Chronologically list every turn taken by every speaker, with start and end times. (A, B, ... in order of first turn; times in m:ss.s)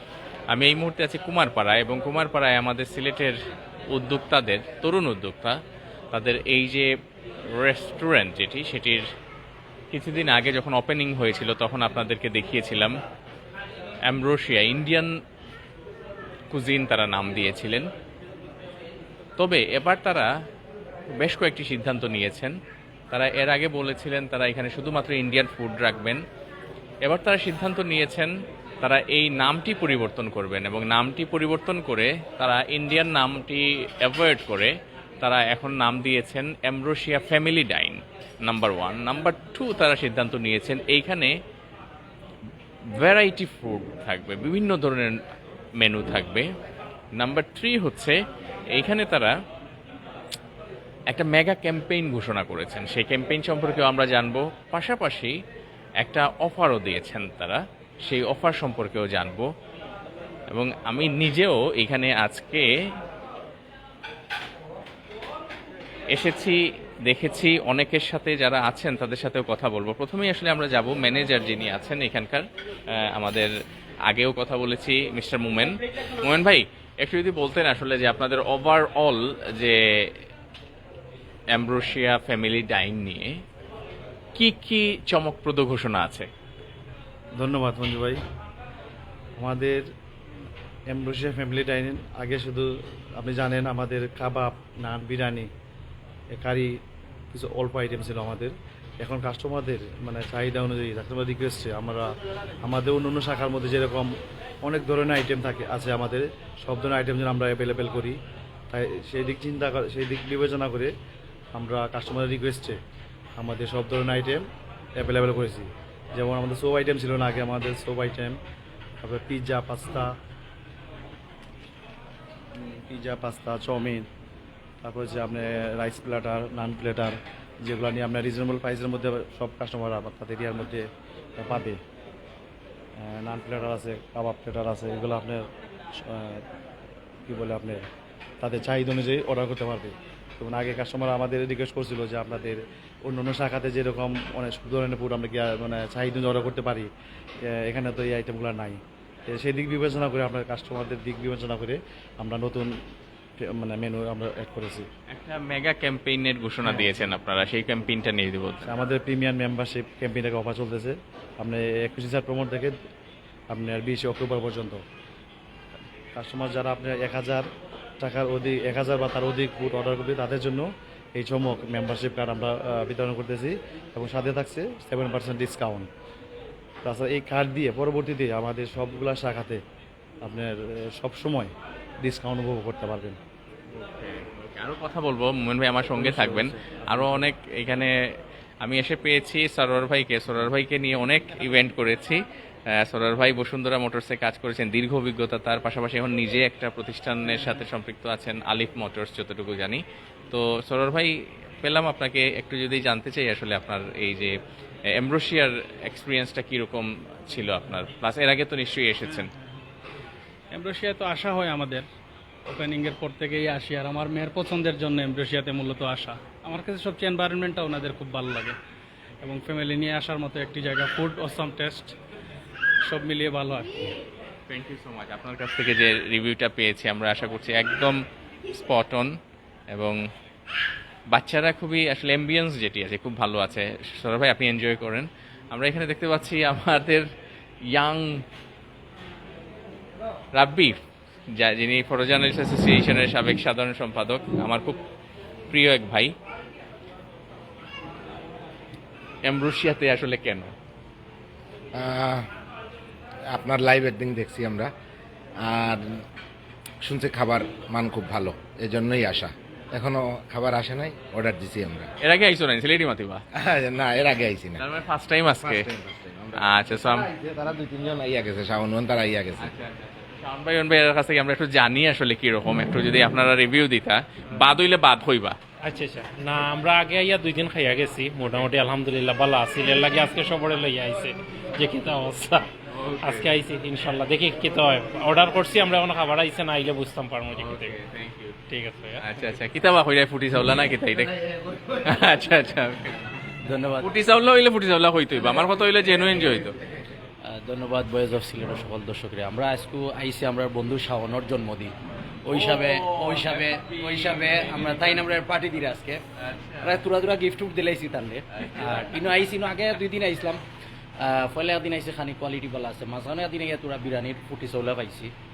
0:00.5-0:03.4 A
0:03.9-0:05.6 A
0:06.1-0:06.9 A
0:07.5-0:09.0 A
0:09.9-0:13.0 A
0:14.1-0:15.2 A
0:16.5-0:17.9 A
0:19.4-0:20.3 A
0:21.2-0:22.6 A
0:23.1-0:26.2 A
0:27.0-0:41.3 A
0:42.9-0:45.2 A
0:45.8-0:46.5 A
0:47.2-0:48.2 A
0:48.7-0:49.3 A
0:51.1-0:55.3 A
0:56.0-0:59.5 A
1:00.5-1:02.7 A
1:06.1-1:13.5 A
1:14.1-1:20.2 A
1:21.5-1:23.3 A
1:24.4-1:26.3 A
1:27.4-1:28.2 B
1:29.4-1:29.8 B
1:30.9-1:35.5 B
1:36.4-1:36.7 B
1:37.3-1:42.1 B
1:42.6-1:44.1 B
1:44.6-1:48.2 B
1:48.7-1:50.9 B
1:51.6-1:52.8 B
1:53.4-1:54.4 B
1:55.0-1:58.4 B
1:59.0-2:00.1 B
2:02.6-2:04.1 B
2:04.8-2:10.9 B
2:11.4-2:11.8 B
2:13.0-2:16.4 B
2:17.3-2:17.8 B
2:18.4-2:26.9 B
2:27.5-2:32.7 B
2:33.4-2:34.9 B
2:35.1-2:38.7 A
2:36.6-2:37.1 B
2:38.6-2:42.7 B
2:43.5-2:44.8 B
2:46.2-2:47.5 B
2:48.0-2:55.9 B
2:56.8-2:59.6 B
3:00.2-3:01.5 B
3:02.0-3:03.2 B
3:03.7-3:07.9 A
3:06.0-3:07.3 B
3:08.6-3:12.2 A
3:12.8-3:24.3 A
3:24.9-3:29.3 A
3:30.5-3:31.8 C
3:32.5-3:38.6 C
3:39.2-3:42.0 C
3:42.8-3:43.9 C
3:44.5-3:49.2 A
3:49.7-3:50.0 A
3:51.1-3:57.1 A
3:57.7-3:58.2 A
4:00.3-4:00.8 A
4:01.3-4:04.8 A
4:05.5-4:06.1 A
4:09.2-4:10.5 A
4:11.8-4:12.3 D
4:13.3-4:14.7 D
4:15.4-4:16.0 D
4:16.8-4:21.9 D
4:22.0-4:23.2 A
4:23.4-4:24.6 D
4:24.6-4:25.7 A
4:25.4-4:29.5 D
4:26.4-4:27.1 A
4:29.4-4:35.4 A
4:35.6-4:47.8 E
4:42.7-4:43.4 A
4:47.3-4:48.4 A
4:48.5-4:49.0 E
4:49.0-4:53.2 A
4:53.4-4:53.9 F
4:53.8-4:56.6 A
4:57.2-5:06.0 F
5:02.3-5:05.0 A
5:06.2-5:06.8 A
5:06.6-5:10.4 F
5:08.3-5:09.0 A
5:11.0-5:15.1 F